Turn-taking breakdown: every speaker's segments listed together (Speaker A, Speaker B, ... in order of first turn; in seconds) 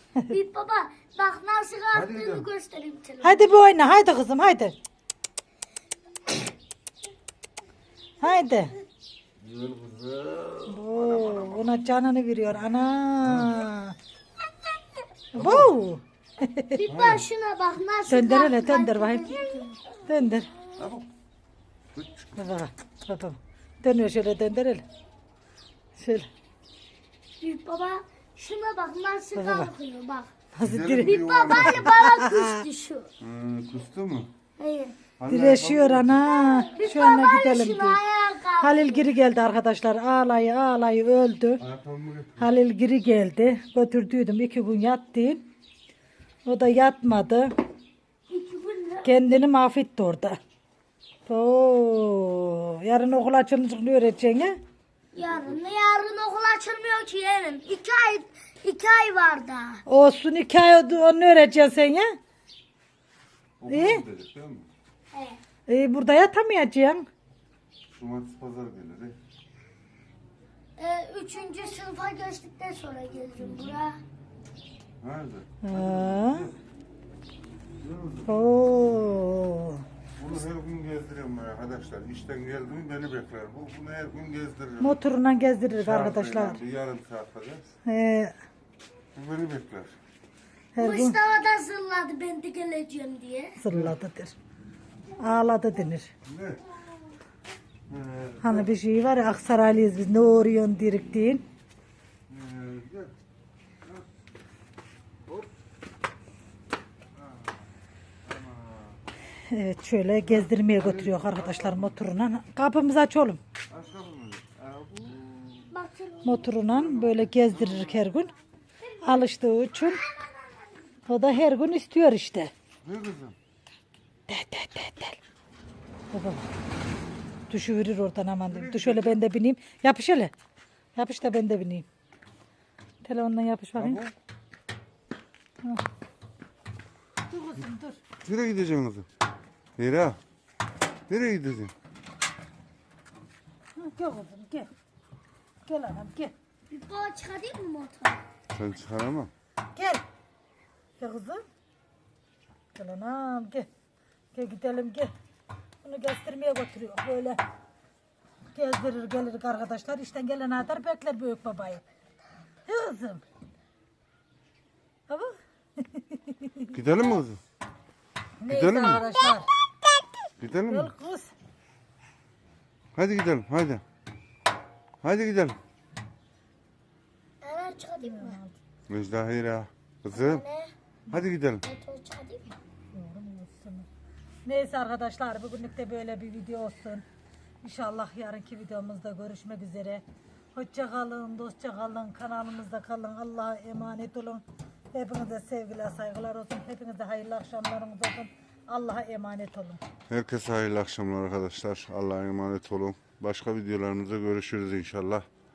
Speaker A: 0.3-3.5, 16.7-20.0, 27.4-30.3, 31.0-33.1, 34.6-35.0, 36.3-39.1, 48.3-49.1, 55.1-59.8, 65.1-65.4, 70.8-74.0, 90.8-93.6, 115.7-116.5, 146.7-148.2, 177.4-178.4, 180.1-180.7, 181.6-182.6
Speaker B: 1.9-2.5, 9.4-11.7, 13.2-13.6, 15.3-15.8, 16.9-17.2, 20.8-21.1, 21.9-22.3, 30.6-32.0, 33.2-34.3, 35.2-36.2, 41.6-42.5, 63.6-64.7, 67.9-69.2, 75.0-76.5, 77.8-78.4, 80.2-85.0, 85.7-87.7, 89.2-90.0, 96.3-96.6, 97.9-98.7, 102.3-103.1, 107.2-107.6, 108.2-109.0, 110.3-111.9, 113.7-115.7, 116.7-118.1, 122.8-123.4, 128.5-129.2, 133.8-134.1, 138.2-139.1, 139.8-140.2, 141.1-141.7, 148.5-149.3, 166.7-167.4, 168.5-169.1, 170.4-170.9, 172.9-173.8, 175.0-175.6, 178.9-180.4, 181.1-181.6, 200.1-205.2
Speaker C: 3.2-4.8, 8.2-8.7, 10.7-13.9, 15.3-16.8, 18.1-20.5, 22.4-24.8, 26.0-26.3, 29.3-29.7, 30.5-32.6, 35.3-38.0, 38.6-41.6, 42.4-45.5, 46.5-47.5, 49.0-50.4, 51.3-54.6, 59.9-62.2, 63.7-64.0, 65.7-67.1, 75.6-76.5, 78.3-79.9, 84.8-86.6, 87.9-88.4, 90.8-91.2, 93.6-94.3, 95.2-96.1, 98.4-101.5, 109.5-113.4, 116.2-118.3, 119.0-120.0, 121.1-122.5, 124.3-125.2, 126.1-126.5, 127.5-130.3, 131.0-131.9, 133.0-134.0, 137.3-138.0, 143.8-144.7, 145.7-146.3, 149.8-150.0, 151.0-151.4, 152.8-153.7, 154.3-155.1, 155.8-157.4, 158.5-161.8, 162.7-163.2, 165.1-166.7, 168.4-169.5, 170.7-171.3, 178.0-178.6, 182.9-183.9, 184.5-187.1, 187.6-190.0, 190.5-199.8